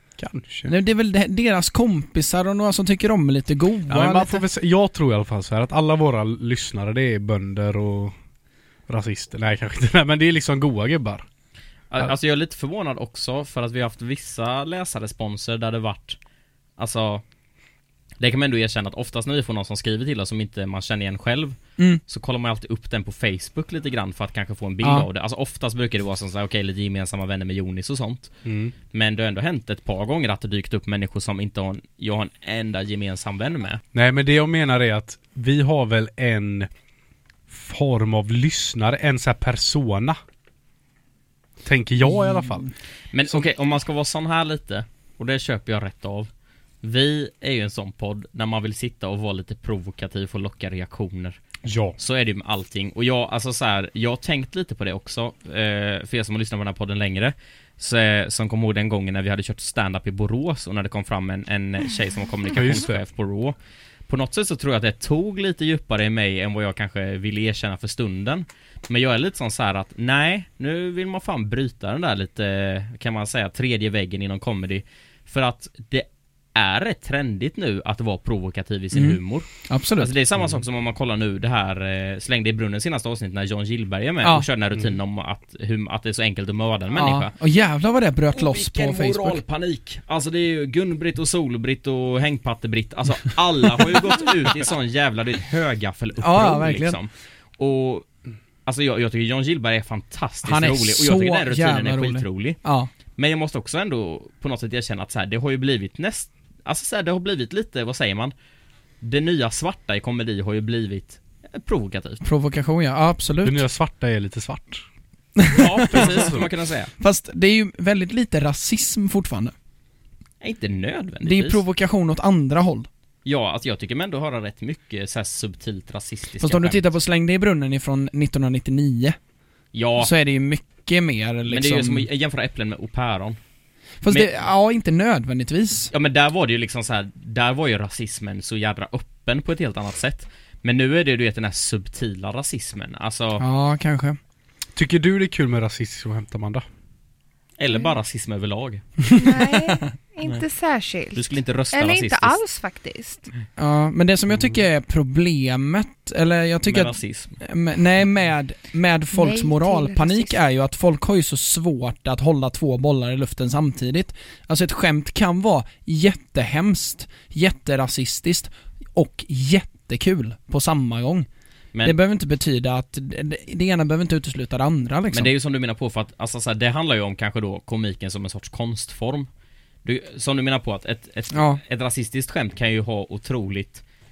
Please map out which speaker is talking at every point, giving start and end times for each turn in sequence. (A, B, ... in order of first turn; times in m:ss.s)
0:00.2-0:00.7 A
0:00.7-0:04.4 B
0:03.9-0:08.2 A
0:08.9-0:11.2 A
0:11.9-0:16.2 C
0:16.8-0:17.2 C
0:18.2-0:28.3 C
0:28.4-0:28.7 A
0:28.9-0:33.8 C
0:33.9-0:36.7 A
0:37.5-0:40.2 A
0:41.6-0:42.7 A
0:42.1-0:42.6 B
0:43.1-0:46.3 C
0:46.8-0:51.4 C
0:51.6-0:52.0 A
0:52.0-1:03.6 C
1:02.5-1:03.0 A
1:04.1-1:27.3 C
1:18.9-1:20.1 B
1:27.0-1:29.4 B
1:28.3-1:38.1 C
1:36.2-1:37.0 B
1:38.7-1:42.6 C
1:40.4-1:42.9 B
1:43.2-1:48.3 C
1:49.0-1:52.2 C
1:52.2-1:53.6 B
1:53.4-1:54.8 A
1:55.4-1:56.2 B
1:55.5-1:56.9 C
1:55.9-1:56.5 A
1:57.0-1:59.5 B
2:00.4-2:01.6 C
2:01.2-2:02.9 B
2:03.2-2:06.9 C
2:06.4-2:09.2 B
2:09.7-2:10.1 C
2:10.0-2:12.1 B
2:11.5-2:13.4 C
2:14.0-2:15.9 B
2:15.9-2:23.4 C
2:23.4-2:24.2 B
2:24.8-2:26.6 A
2:27.6-2:28.9 C
2:29.1-2:33.3 D
2:29.2-2:29.8 B
2:31.2-2:32.4 C
2:33.6-2:51.3 B
2:36.6-2:37.4 C
2:39.1-2:40.4 D
2:51.8-2:55.3 B
2:55.1-2:59.3 C
2:59.8-3:03.8 C
3:01.3-3:01.6 B